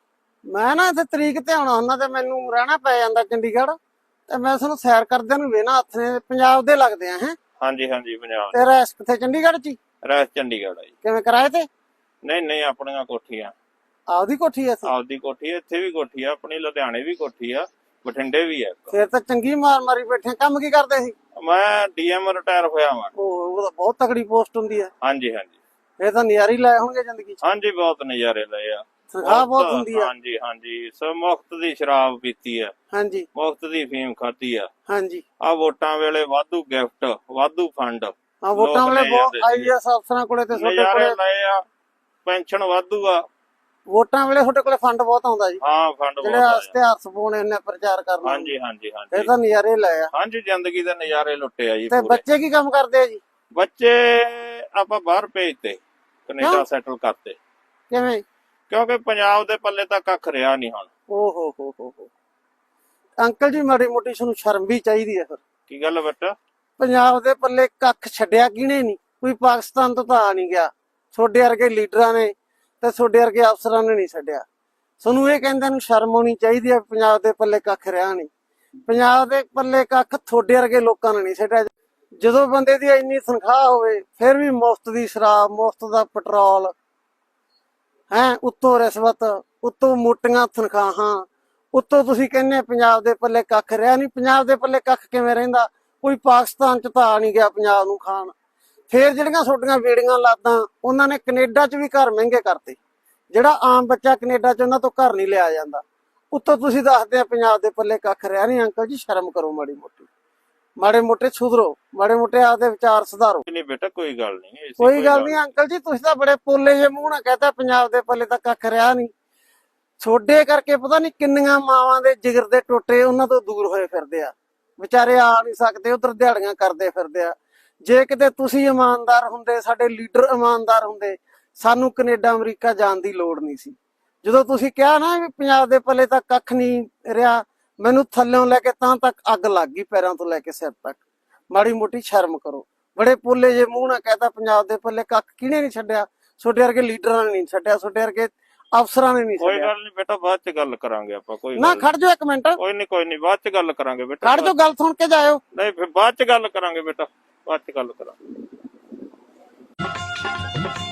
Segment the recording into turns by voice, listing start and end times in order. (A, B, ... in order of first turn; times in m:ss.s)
0:00.5-0:03.8 A
0:04.3-0:07.4 A
0:07.6-0:08.6 B
0:08.5-0:09.8 A
0:10.0-0:10.9 B
0:11.0-0:11.7 A
0:12.2-0:13.5 B
0:14.1-0:14.9 A
0:14.8-0:19.0 B
0:18.9-0:21.2 A
0:21.4-0:23.1 B
0:23.2-0:24.9 A
0:25.0-0:25.6 B
0:26.0-0:27.4 A
0:27.4-0:32.7 B
0:29.1-0:30.1 A
0:32.9-0:33.3 A
0:33.4-0:34.7 B
0:34.9-0:35.2 A
0:35.4-0:39.7 B
0:38.4-0:41.2 A
0:40.5-0:41.6 B
0:42.2-0:43.2 B
0:43.9-0:45.6 A
0:45.6-0:46.7 B
0:46.2-0:48.5 A
0:48.2-0:49.3 B
0:49.1-0:50.1 A
0:50.1-0:52.2 B
0:51.9-0:53.2 A
0:53.5-0:57.4 B
0:56.4-0:56.6 A
0:57.9-0:58.2 A
0:58.7-1:00.9 B
1:01.1-1:02.1 A
1:03.2-1:05.4 A
1:05.7-1:06.4 B
1:06.8-1:14.4 A
1:15.0-1:18.3 A
1:18.9-1:21.7 A
1:22.2-1:26.7 A
1:28.1-1:38.3 A
1:38.9-1:42.8 A
1:43.3-1:50.1 A
1:50.8-1:53.4 A
1:53.5-1:55.4 B
1:54.8-1:59.1 A
2:00.0-2:21.0 A
2:21.5-2:29.7 A
2:29.4-2:31.9 B
2:31.6-2:32.6 A
2:32.6-2:34.6 B
2:34.2-2:35.4 A
2:35.5-2:38.2 B